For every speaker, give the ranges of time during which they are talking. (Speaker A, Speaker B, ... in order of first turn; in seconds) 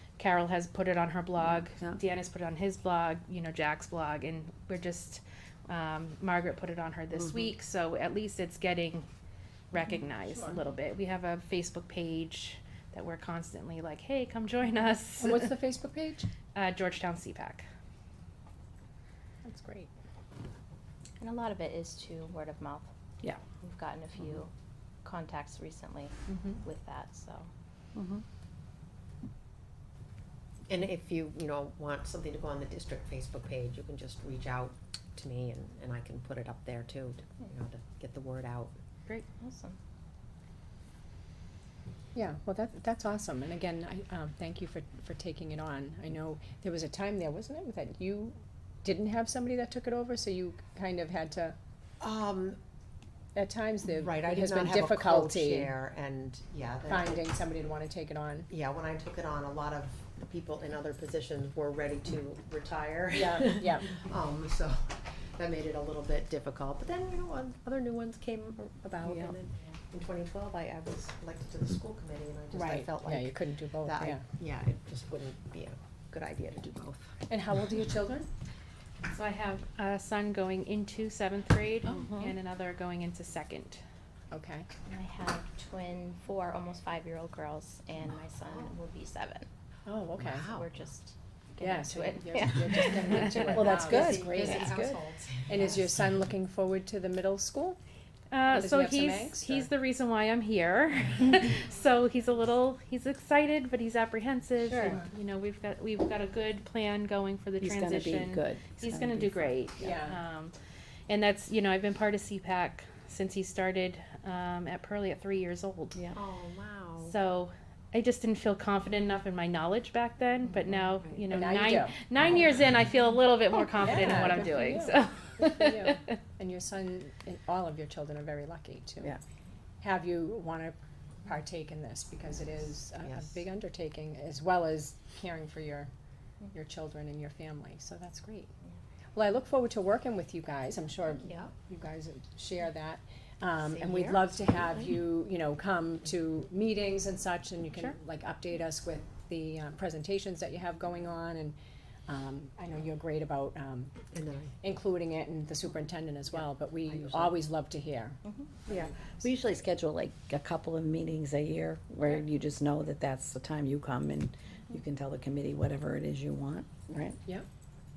Speaker A: 0.2-9.1, 9.7-15.5, 16.5-17.6, 79.1-83.8, 98.3-110.5, 111.1-116.0, 117.0-126.2
Speaker B: 1.4-2.0, 7.2-7.5, 27.9-28.2, 69.0-69.3, 81.9-82.3, 93.5-95.0, 104.7-104.9, 107.6-109.9, 158.7-167.2
Speaker C: 10.3-10.6, 15.2-16.3, 19.4-19.9, 42.1-51.5, 53.3-55.7, 56.9-58.5, 63.1-63.9, 72.5-74.2, 77.3-78.3, 84.3-84.7, 89.8-90.5, 91.6-94.8, 95.5-97.8, 98.5-99.7, 104.8-105.1, 109.8-110.2, 121.3-122.0, 123.8-129.2, 129.8-135.9, 136.5-138.5, 139.1-153.9, 154.6-158.2
Speaker D: 21.2-22.9, 23.5-24.5, 25.0-27.5, 39.3-39.8, 84.9-89.5, 90.4-93.5, 158.2-158.6
Speaker E: 30.7-38.8, 52.0-52.6, 53.9-57.2, 58.5-77.1, 88.4-88.7, 90.2-90.7, 93.5-95.9, 116.1-117.1, 133.0-133.4, 141.2-141.5, 143.6-144.3, 154.1-154.5, 156.9-157.3